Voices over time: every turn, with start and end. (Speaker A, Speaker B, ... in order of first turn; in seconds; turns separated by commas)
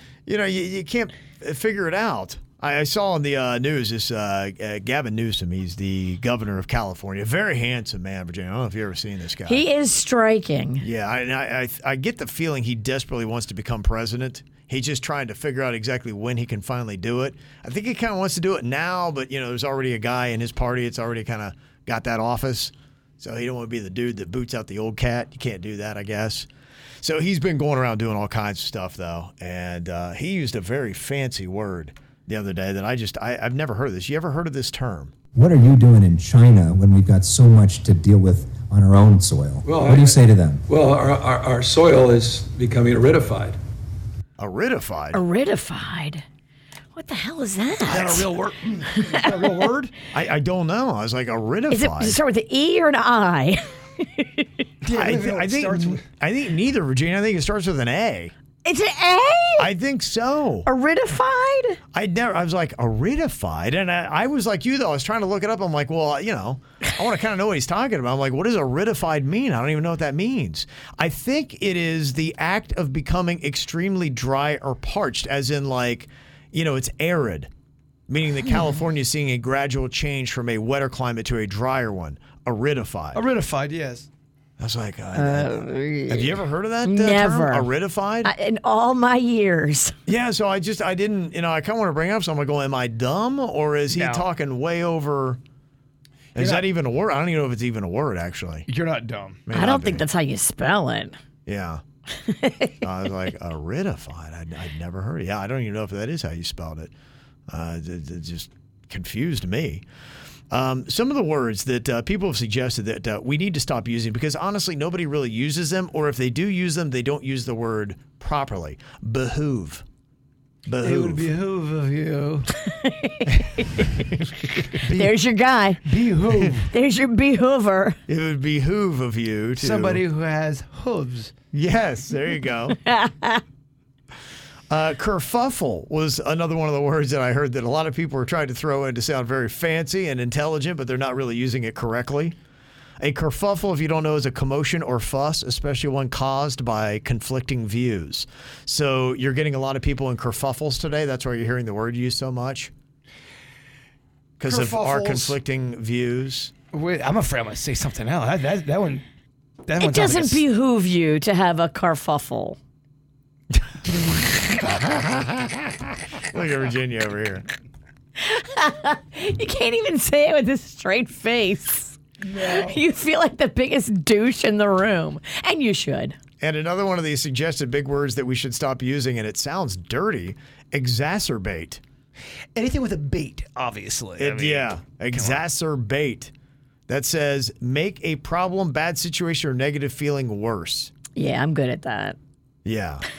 Speaker A: 0.2-9.6, Speaker B: 9.5-10.8, Speaker A: 10.8-26.5, Speaker A: 27.0-35.1, Speaker C: 35.3-40.6, Speaker D: 39.6-43.6, Speaker A: 44.4-45.2, Speaker B: 45.1-46.2, Speaker B: 46.9-48.3, Speaker E: 47.9-49.9, Speaker A: 50.1-52.2, Speaker B: 51.7-54.5, Speaker E: 54.8-56.0, Speaker A: 54.9-58.3, Speaker B: 58.6-59.7, Speaker A: 59.6-60.7, Speaker B: 60.6-61.8, Speaker A: 61.9-77.5, Speaker A: 78.1-83.2, Speaker E: 83.1-84.1, Speaker A: 84.6-88.3, Speaker B: 85.1-87.7, Speaker B: 88.2-90.0, Speaker A: 90.1-95.4, Speaker E: 93.9-94.2, Speaker A: 96.3-98.7, Speaker E: 96.4-96.7, Speaker E: 98.7-99.4, Speaker A: 99.5-100.0, Speaker B: 99.5-101.2, Speaker A: 101.5-101.8, Speaker B: 102.2-102.7, Speaker A: 102.8-106.9, Speaker A: 107.5-109.8, Speaker A: 110.5-119.8, Speaker A: 120.7-121.3, Speaker E: 120.8-122.5, Speaker B: 122.7-123.8, Speaker E: 124.8-125.2, Speaker B: 124.9-125.8, Speaker E: 125.8-126.7, Speaker B: 126.7-128.0, Speaker A: 128.1-130.0, Speaker E: 129.6-131.3, Speaker A: 131.5-132.8, Speaker B: 132.8-133.4, Speaker A: 134.7-142.3, Speaker A: 143.0-152.7, Speaker A: 154.4-156.5, Speaker E: 154.4-155.4, Speaker E: 156.7-159.0, Speaker E: 159.7-160.4, Speaker B: 159.8-162.6, Speaker A: 164.6-167.4, Speaker B: 168.2-176.2, Speaker E: 172.2-172.8, Speaker A: 176.4-181.8, Speaker E: 182.5-185.4, Speaker A: 184.2-186.3, Speaker A: 186.9-190.9, Speaker B: 191.1-192.2, Speaker A: 192.6-193.0